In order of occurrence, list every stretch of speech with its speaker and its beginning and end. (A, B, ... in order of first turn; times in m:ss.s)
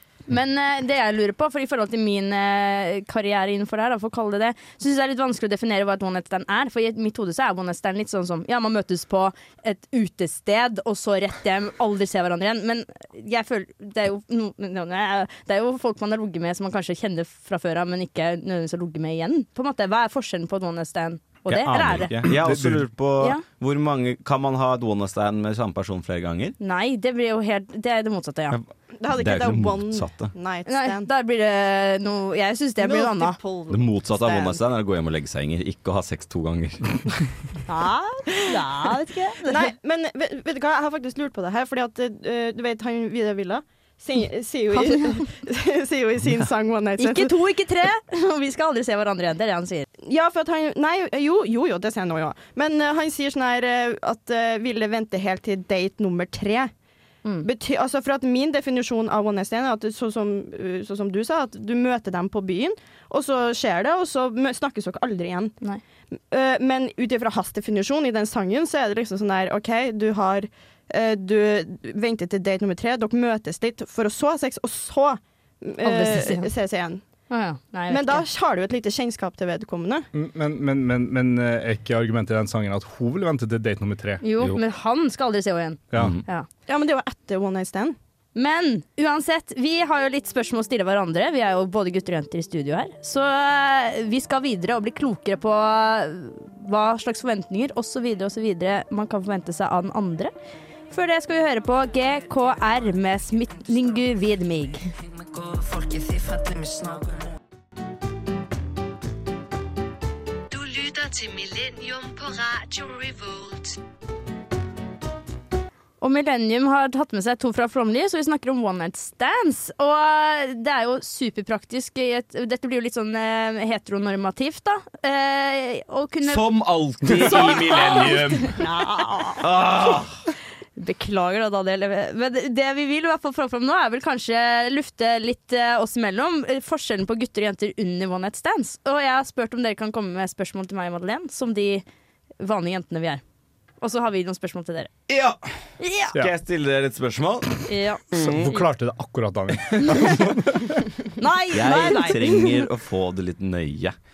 0:00.3-0:22.1 A
0:21.5-0:26.6 B
0:21.6-0:22.9 C
0:26.6-0:28.6 A
0:28.5-0:30.3 B
0:29.0-0:31.1 D
0:30.7-0:33.4 A
0:32.8-0:34.6 D
0:33.7-0:37.0 B
0:37.7-0:39.7 A
0:38.4-0:38.9 D
0:39.5-0:47.3 D
0:44.7-0:45.2 A
0:47.0-0:49.9 A
0:50.0-0:56.7 D
0:57.4-1:05.6 D
1:06.3-1:17.0 D
1:15.8-1:16.5 A
1:17.3-1:18.2 A
1:17.9-1:20.1 D
1:20.1-1:24.6 C
1:24.2-1:26.5 A
1:25.9-1:26.2 C
1:26.0-1:26.2 B
1:26.7-1:28.0 D
1:28.4-1:40.3 A
1:40.9-1:44.9 A
1:50.5-1:53.8 E
1:56.0-2:06.4 A
2:06.2-2:08.6 B
2:07.1-2:08.0 C
2:07.1-2:09.4 A
2:09.4-2:10.1 B
2:10.8-2:21.8 A
2:22.4-2:23.2 A
2:23.8-2:24.9 A
2:25.1-2:25.4 B
2:25.8-2:26.2 A
2:26.2-2:28.5 B
2:27.7-2:28.0 A
2:28.1-2:30.8 C
2:29.8-2:30.2 A
2:31.2-2:32.2 A
2:31.5-2:33.9 B
2:31.7-2:32.4 D